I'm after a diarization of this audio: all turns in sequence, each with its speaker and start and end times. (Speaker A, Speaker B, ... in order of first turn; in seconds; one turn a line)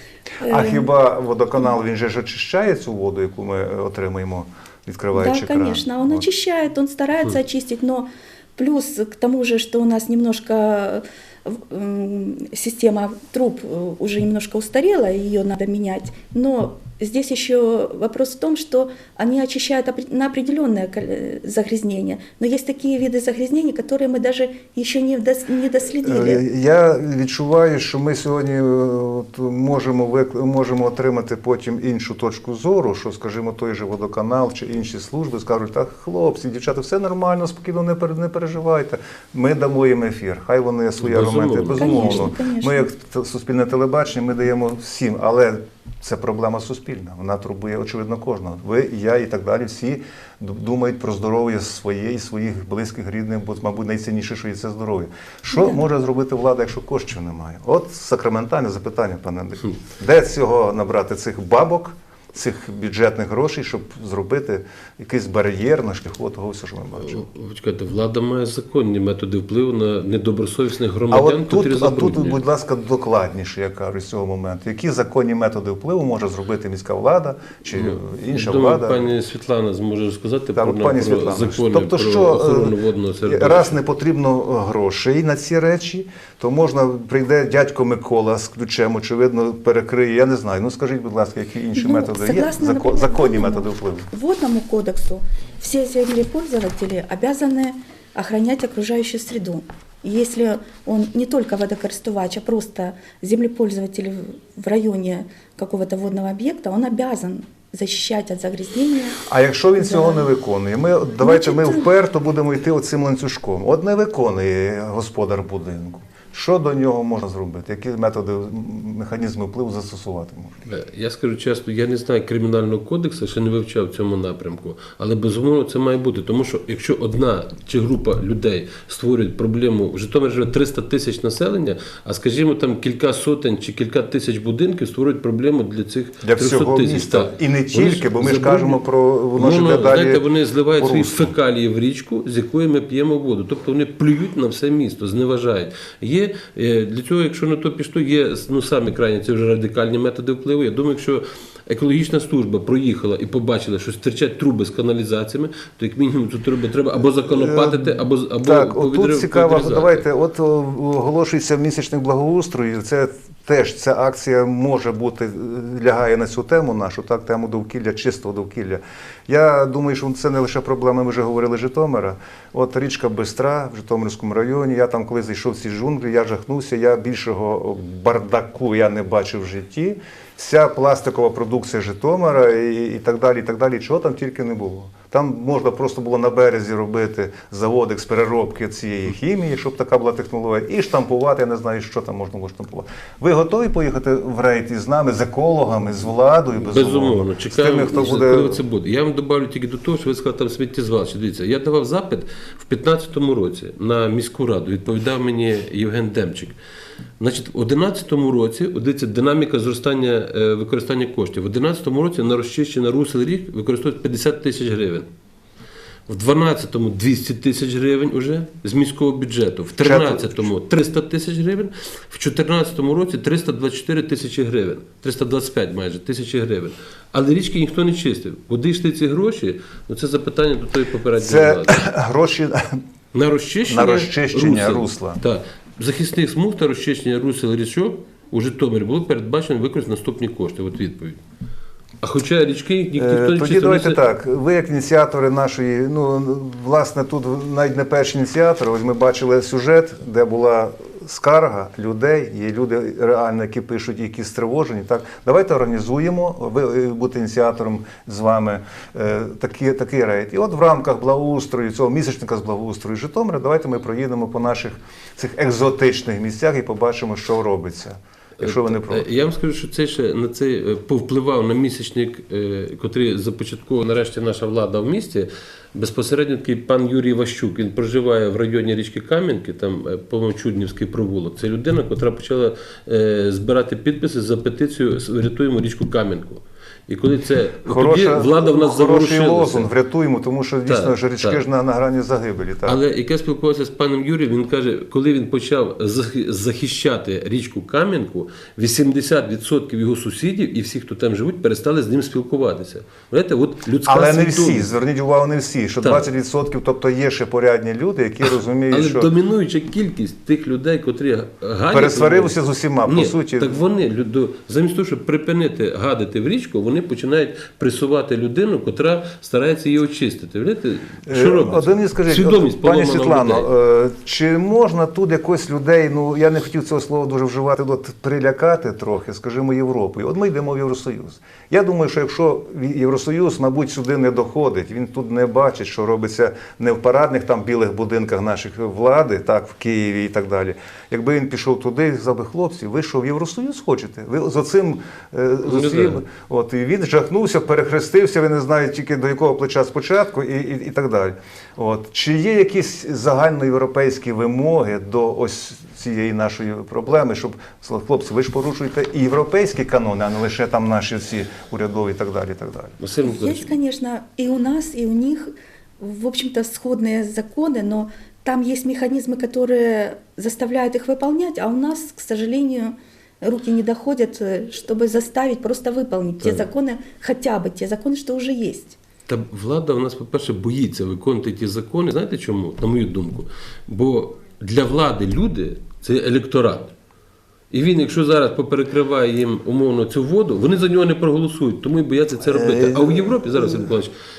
Speaker A: 0.4-0.9
Speaker B: 0.5-6.2
Speaker A: 5.1-26.4
Speaker B: 26.1-67.3
Speaker C: 41.0-42.3
Speaker A: 41.8-42.9
Speaker A: 55.5-55.8
Speaker C: 67.0-72.4
Speaker B: 71.1-79.1
Speaker C: 77.7-83.8
Speaker B: 80.6-82.7
Speaker B: 83.3-94.1
Speaker A: 91.8-109.2
Speaker B: 109.3-120.5
Speaker A: 109.8-110.3
Speaker A: 111.2-111.9
Speaker C: 120.7-138.8
Speaker B: 136.2-140.2
Speaker C: 139.3-160.1
Speaker B: 140.8-141.3
Speaker B: 157.2-198.6
Speaker C: 196.6-206.6
Speaker C: 207.2-215.1
Speaker C: 216.1-231.8
Speaker B: 219.8-220.5
Speaker B: 231.2-232.8
Speaker C: 233.1-241.2
Speaker B: 233.7-235.2
Speaker C: 242.0-244.0
Speaker B: 243.0-269.1
Speaker C: 268.4-289.7
Speaker B: 287.7-292.8
Speaker C: 290.7-291.4
Speaker C: 292.6-304.7
Speaker B: 303.9-309.1
Speaker C: 308.2-323.5
Speaker B: 311.7-313.6
Speaker B: 321.1-362.8
Speaker C: 345.4-346.0
Speaker C: 362.8-363.5
Speaker A: 363.0-378.8
Speaker C: 379.1-386.7
Speaker C: 387.5-393.9
Speaker B: 392.3-393.7